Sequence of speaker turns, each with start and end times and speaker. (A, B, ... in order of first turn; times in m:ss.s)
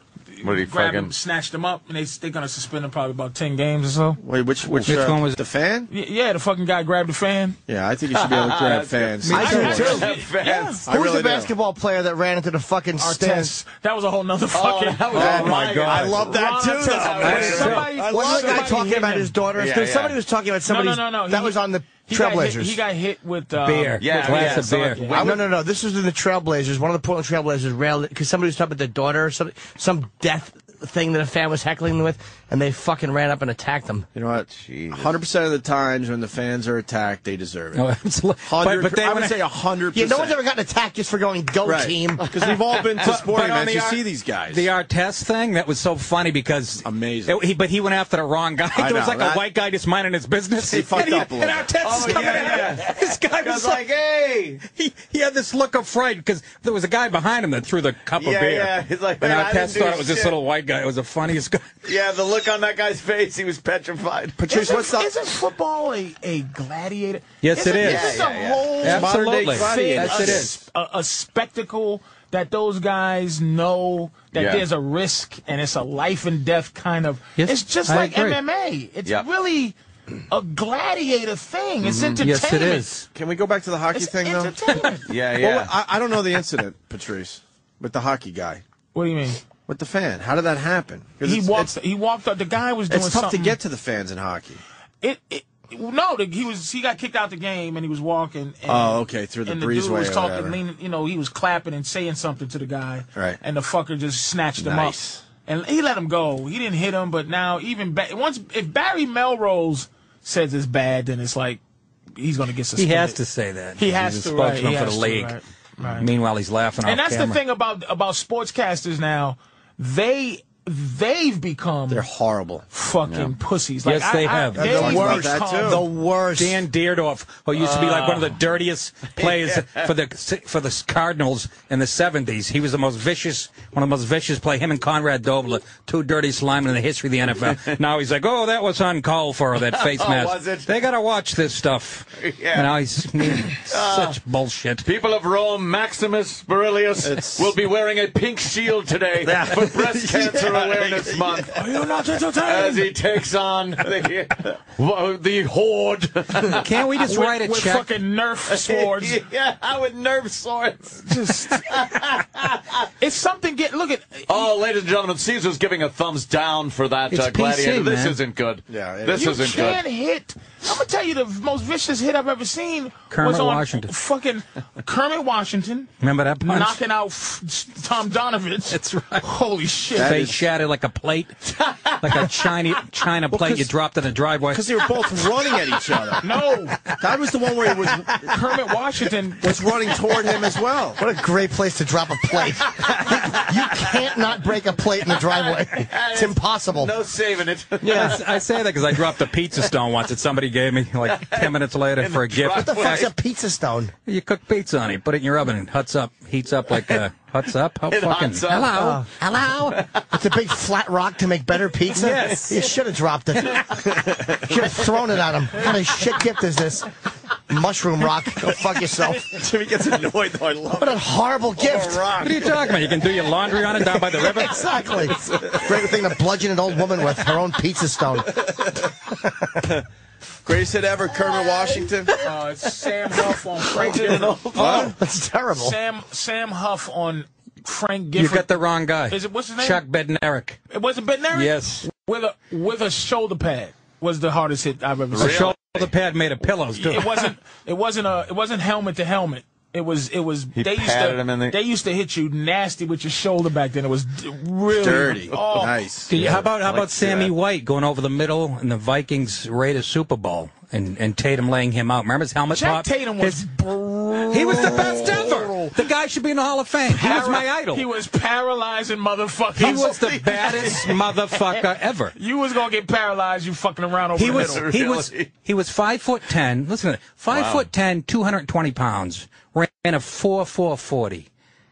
0:00.3-0:04.2 A
0:00.4-0:01.1 B
0:04.2-0:05.9 C
0:04.8-0:05.4 D
0:05.9-0:07.6 A
0:07.7-0:10.0 C
0:08.1-0:10.8 B
0:09.2-0:10.1 D
0:09.3-0:13.5 E
0:09.4-0:10.8 A
0:10.8-0:11.5 C
0:13.0-0:15.6 A
0:14.5-0:17.8 B
0:15.1-0:18.9 C
0:15.6-0:16.2 D
0:16.2-0:19.4 A
0:17.2-0:18.0 D
0:18.0-0:22.8 E
0:19.6-0:20.2 B
0:20.6-0:25.3 A
0:23.6-0:25.1 D
0:24.0-0:25.5 B
0:25.1-0:34.1 E
0:34.1-0:37.9 C
0:34.5-0:35.1 B
0:37.7-0:39.4 D
0:38.4-0:40.4 C
0:39.9-0:42.3 E
0:41.6-0:44.7 C
0:42.3-0:43.2 B
0:43.0-0:53.8 D
0:46.8-0:47.4 C
0:48.7-0:49.4 C
0:50.6-0:52.6 C
0:51.7-0:54.6 B
0:54.6-1:01.7 D
0:58.2-1:00.4 B
1:01.8-1:04.4 B
1:04.4-1:05.1 C
1:04.5-1:19.8 A
1:07.4-1:08.2 D
1:07.7-1:08.8 B
1:08.8-1:10.5 C
1:08.8-1:10.6 D
1:14.3-1:14.6 B
1:17.4-1:18.4 D
1:20.3-1:22.9 A
1:21.8-1:22.2 B
1:22.2-1:23.1 D
1:23.1-1:28.6 C
1:23.9-1:25.0 A
1:25.0-1:25.7 B
1:28.9-1:29.4 A
1:29.7-1:31.7 C
1:31.2-1:33.6 A
1:32.9-1:34.6 C
1:35.0-1:51.6 A
1:38.7-1:40.6 C
1:44.6-1:45.2 C
1:52.2-1:53.2 A
1:52.8-1:55.4 D
1:53.8-1:56.0 A
1:56.0-1:57.4 D
1:56.8-2:02.0 A
2:01.9-2:02.6 C
2:02.7-2:05.8 A
2:03.1-2:03.3 B
2:03.8-2:05.2 D
2:04.6-2:05.8 C
2:04.6-2:06.6 E
2:06.4-2:24.8 D
2:07.6-2:08.4 B
2:09.2-2:09.9 B
2:17.4-2:17.8 B
2:19.5-2:20.7 B
2:22.2-2:24.2 B
2:24.8-2:31.6 B
2:27.0-2:27.5 C
2:29.2-2:31.5 C
2:31.5-2:32.9 A
2:32.4-2:36.7 B
2:36.4-2:37.9 D
2:37.0-2:39.2 A
2:38.5-2:41.0 B
2:41.0-2:41.6 A
2:41.7-2:42.9 B
2:43.0-2:44.5 A
2:44.3-2:49.8 B
2:47.1-2:48.2 D
2:48.7-2:49.8 C
2:49.1-2:55.9 A
2:53.1-2:53.9 D
2:56.0-2:56.8 D
2:56.4-3:00.1 A
2:58.7-2:59.3 D
3:00.0-3:00.4 C
3:00.0-3:01.4 D
3:01.6-3:02.3 B
3:02.0-3:05.1 D
3:03.3-3:03.7 C
3:04.5-3:06.3 C
3:06.2-3:06.8 A
3:07.0-3:08.4 C
3:08.2-3:09.9 A
3:09.4-3:11.0 C
3:11.0-3:16.9 E
3:15.1-3:19.2 B
3:17.8-3:23.1 D
3:17.8-3:18.1 C
3:21.0-3:23.1 B
3:22.6-3:23.9 E
3:24.0-3:29.7 D
3:26.7-3:27.0 B
3:27.9-3:29.0 B
3:28.7-3:36.9 E
3:29.6-3:30.1 B
3:31.9-3:32.6 D
3:37.5-3:39.4 E
3:39.2-3:41.0 C
3:40.7-3:42.2 E
3:41.6-3:42.6 C
3:42.2-3:44.7 D
3:44.5-3:49.6 E
3:44.5-3:45.7 B
3:45.1-3:45.7 C
3:50.4-3:52.1 C
3:51.2-3:52.3 B
3:52.2-3:54.4 A
3:53.7-3:54.9 B
3:54.5-3:55.8 E
3:54.5-3:54.9 C
3:55.6-3:59.8 A
3:58.2-4:00.6 D
4:00.7-4:05.5 A
4:01.3-4:01.9 D
4:05.1-4:05.9 B
4:05.2-4:07.3 D
4:06.8-4:15.8 A
4:10.6-4:11.6 B
4:14.7-4:16.4 C
4:16.1-4:23.4 D
4:16.1-4:17.3 B
4:22.5-4:25.7 A
4:24.3-4:27.8 D
4:24.8-4:25.1 B
4:26.9-4:30.9 A
4:29.6-4:32.1 D
4:30.2-4:31.0 B
4:32.1-4:34.6 A
4:34.2-4:41.3 D
4:34.2-4:35.3 B
4:37.3-4:37.7 B